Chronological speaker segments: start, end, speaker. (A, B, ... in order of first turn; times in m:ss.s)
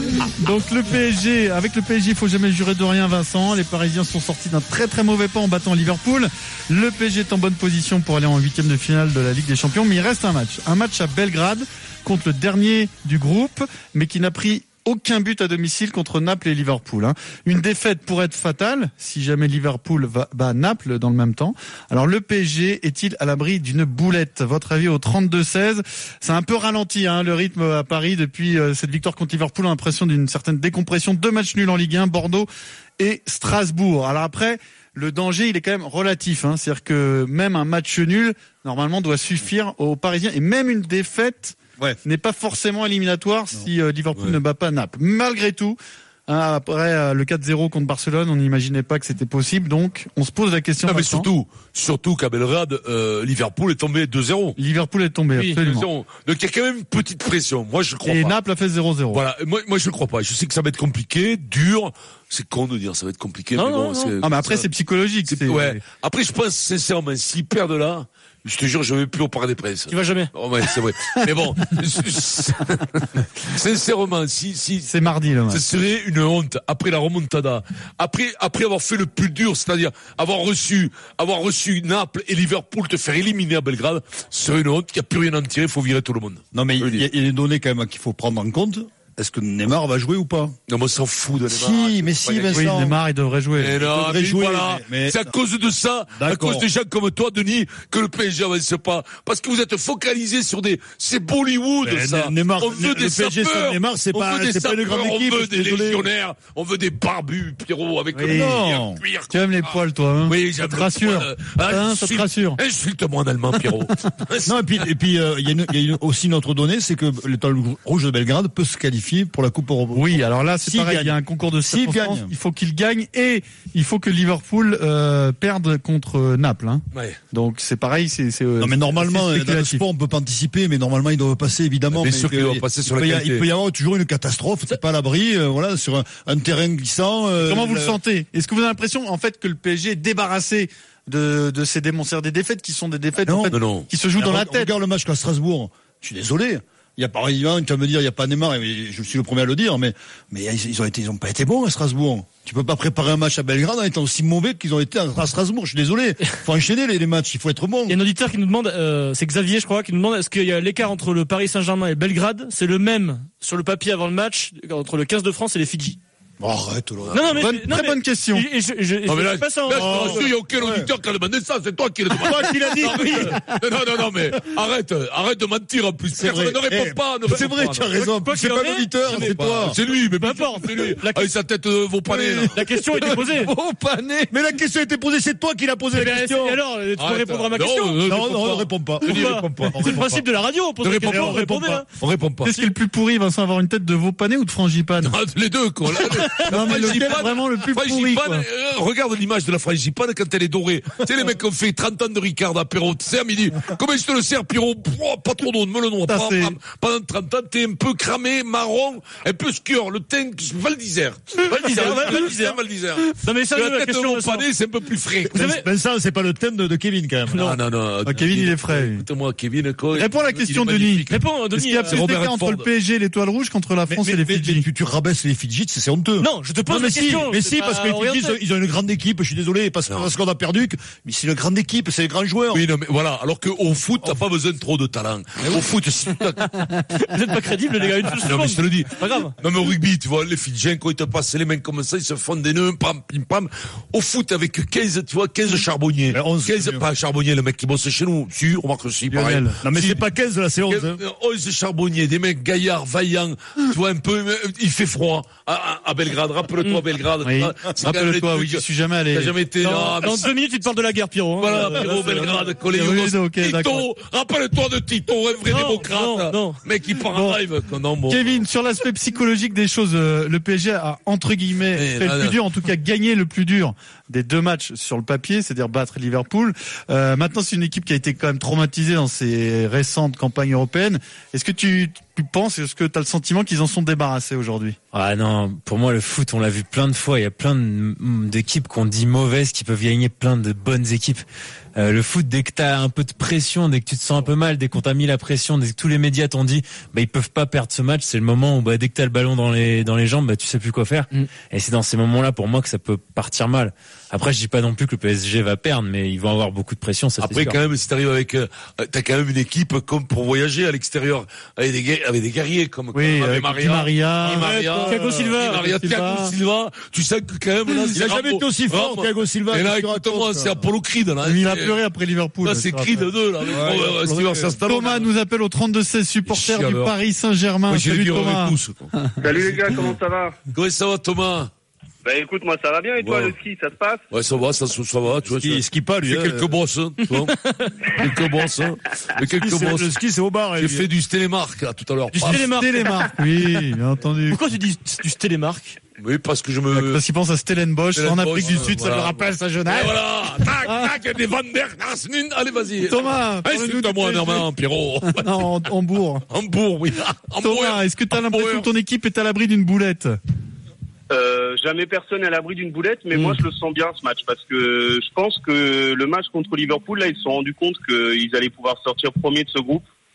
0:00.2-0:51.3 A
0:50.8-0:54.6 B
0:54.6-0:55.9 A
0:55.3-0:55.6 C
0:55.6-0:58.3 B
0:58.0-0:59.2 A
0:59.1-1:04.6 B
1:03.6-1:04.1 C
1:04.2-1:05.8 A
1:05.2-1:14.9 B
1:09.9-1:10.3 C
1:14.9-1:15.6 A
1:15.5-1:27.0 B
1:26.5-1:30.5 D
1:30.7-1:32.8 B
1:31.5-1:33.0 D
1:32.5-1:33.8 A
1:33.6-1:54.6 B
1:33.8-1:35.3 D
1:36.1-1:36.7 D
1:41.8-1:46.1 D
1:48.1-1:48.7 A
1:48.3-1:49.0 D
1:49.3-1:52.6 A
1:54.4-2:02.3 D
1:59.9-2:09.8 A
2:08.6-2:18.0 D
2:11.9-2:13.4 B
2:17.4-2:24.7 A
2:23.2-2:23.6 D
2:23.5-2:23.9 B
2:24.2-2:38.0 D
2:37.9-2:46.0 C
2:46.4-2:47.4 D
2:47.1-2:50.3 C
2:47.4-2:48.4 A
2:49.1-2:58.1 B
2:49.7-2:50.9 D
2:52.1-2:53.4 D
2:52.7-2:53.2 C
2:56.1-2:59.8 D
2:57.9-3:01.4 C
2:59.1-3:04.3 B
3:02.1-3:02.6 D
3:02.5-3:03.5 C
3:04.3-3:06.6 D
3:05.9-3:08.1 C
3:07.0-3:10.0 B
3:08.0-3:10.2 D
3:09.0-3:11.8 C
3:10.8-3:12.6 B
3:11.0-3:11.4 D
3:12.4-3:15.1 A
3:15.0-3:35.5 B
3:16.0-3:16.7 C
3:16.4-3:18.4 A
3:26.0-3:26.6 A
3:31.4-3:32.6 C
3:33.2-3:34.5 C
3:35.3-3:35.6 C
3:35.3-3:37.4 D
3:37.3-3:37.6 C
3:37.4-3:41.2 B
3:38.0-3:39.0 A
3:39.9-3:44.7 A
3:41.1-3:42.0 C
3:41.9-3:42.7 B
3:43.9-3:52.6 D
3:46.2-3:48.4 C
3:52.5-3:57.0 B
3:57.0-3:59.3 C
3:58.2-4:10.0 B
4:06.1-4:06.8 D
4:09.1-4:09.6 A
4:09.6-4:11.0 D
4:10.7-4:20.3 B
4:17.2-4:19.4 A
4:19.6-4:22.6 C
4:21.4-4:28.4 B
4:22.6-4:23.9 A
4:25.4-4:26.6 C
4:27.1-4:27.4 A
4:28.1-4:44.8 A
4:31.8-4:32.4 B
4:44.9-4:51.2 E
4:51.8-5:07.6 E
5:07.2-5:21.8 B
5:12.9-5:16.3 A
5:14.2-5:15.0 D
5:14.8-5:15.6 C
5:17.9-5:20.7 D
5:21.2-5:23.1 A
5:22.4-5:25.1 B
5:23.5-5:24.6 D
5:24.6-5:29.1 A
5:26.3-5:26.9 B
5:27.7-5:30.0 B
5:29.2-5:30.4 F
5:30.5-5:31.5 B
5:32.0-5:34.0 F
5:33.0-5:33.3 B
5:34.1-5:37.4 B
5:35.2-5:36.5 D
5:37.1-5:37.7 C
5:37.9-5:39.9 B
5:39.3-5:40.9 D
5:40.6-5:42.5 B
5:42.1-5:44.4 A
5:42.2-5:42.9 C
5:44.3-5:45.8 C
5:46.0-5:47.0 B
5:46.7-5:49.9 A
5:47.9-5:55.6 B
5:50.6-5:50.9 A
5:52.8-5:54.5 A
5:55.0-5:56.2 A
5:56.3-5:58.7 B
5:57.4-6:00.2 A
6:01.1-6:09.8 F
6:03.2-6:03.4 A